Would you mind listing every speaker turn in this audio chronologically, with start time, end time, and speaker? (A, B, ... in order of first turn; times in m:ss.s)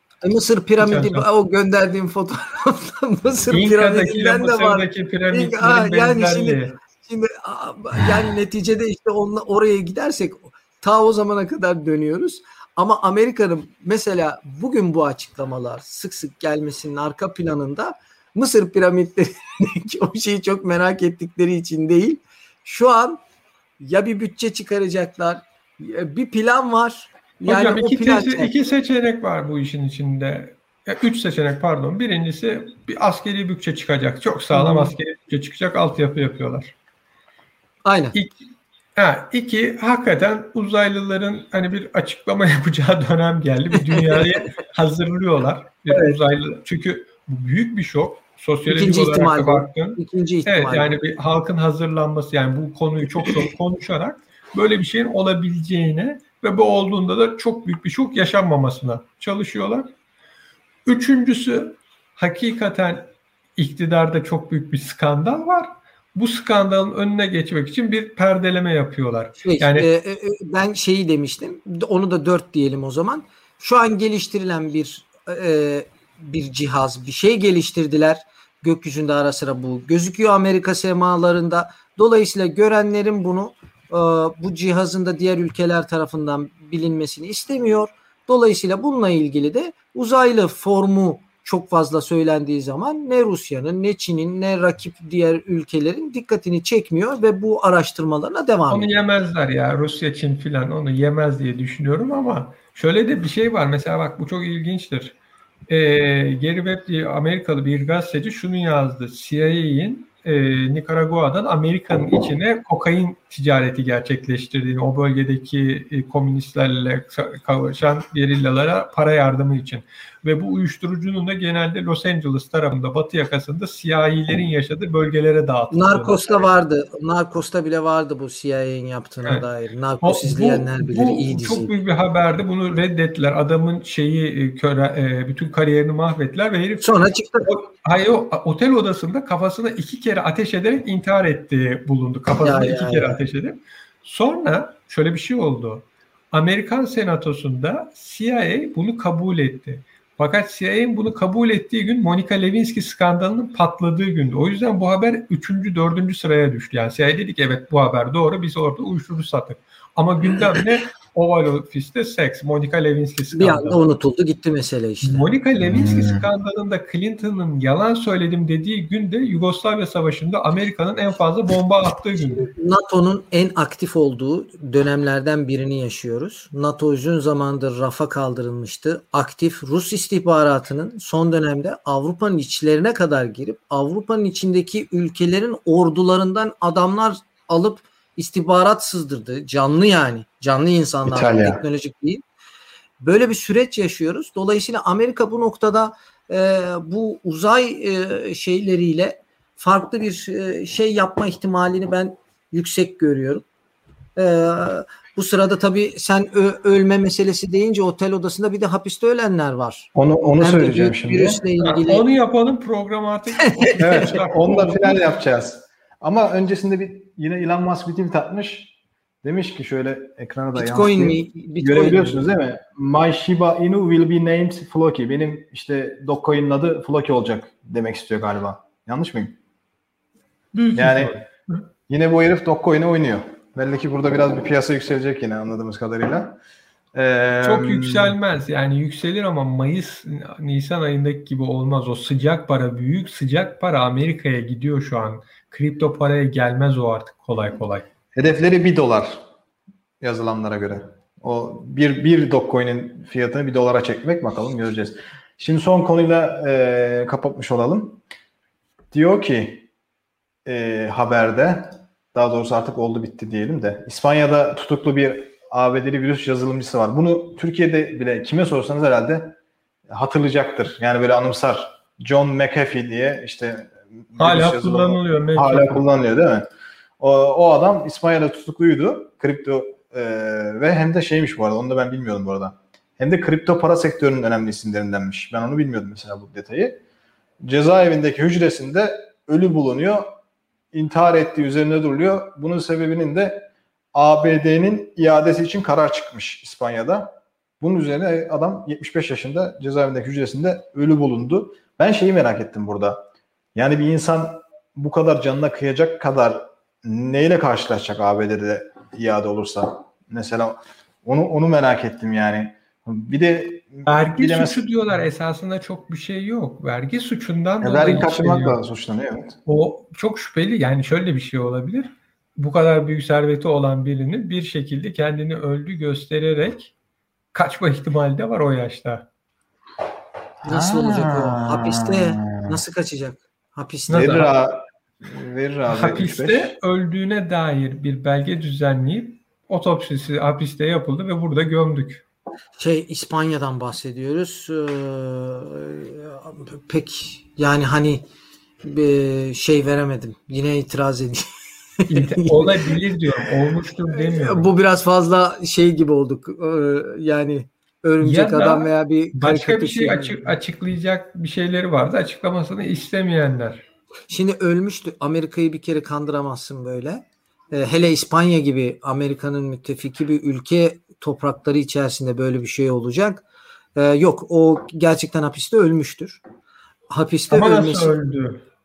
0:00.2-0:23.2 A
0:00.8-0:01.2 B
0:03.5-0:06.7 B
0:23.8-0:28.5 A
0:27.4-0:36.7 B
0:34.5-0:34.9 A
0:37.8-0:38.2 A
0:39.0-0:59.9 B
0:43.9-0:44.4 A
0:45.9-0:46.2 A
0:48.6-0:50.9 A
1:00.8-1:09.9 B
1:09.4-1:38.9 A
1:38.7-1:45.2 B
1:45.7-2:06.5 B
2:05.7-2:11.7 A
2:10.0-2:16.9 B
2:16.8-2:17.5 A
2:17.5-2:43.8 B
2:22.4-2:23.2 A
2:43.3-2:45.3 A
2:45.0-2:52.5 B
2:45.6-2:46.2 C
2:52.4-3:12.2 A
3:11.0-3:11.6 C
3:13.0-3:23.4 A
3:24.2-3:32.0 A
3:29.9-3:31.4 C
3:31.6-3:35.0 B
3:33.8-3:49.4 C
3:40.5-3:42.3 A
3:50.5-3:51.6 B
3:50.7-3:51.2 C
3:51.9-3:56.4 C
3:56.9-3:58.2 C
3:57.4-4:07.8 B
4:08.1-4:09.2 C
4:10.0-4:18.0 C
4:18.9-4:19.6 C
4:20.4-4:29.4 C
4:29.9-4:36.4 C
4:34.2-4:35.8 B
4:37.0-4:46.8 C
4:47.4-4:50.1 C
4:50.7-5:03.0 C
5:03.5-5:14.6 C
5:13.8-5:18.6 B
5:17.6-5:19.4 C
5:19.4-5:26.7 B
5:27.3-5:29.1 B
5:30.4-5:32.6 C
5:30.5-5:34.2 A
5:33.9-5:34.3 B
5:33.9-5:36.5 C
5:35.7-5:42.0 B
5:42.6-5:48.0 A
5:48.6-5:51.3 A
5:51.8-5:52.7 A
5:51.9-5:54.5 B
5:54.0-6:00.3 A
5:58.0-6:03.6 B
6:04.1-6:13.2 A
6:13.7-6:16.2 A
6:16.9-6:17.9 A
6:17.3-6:18.4 B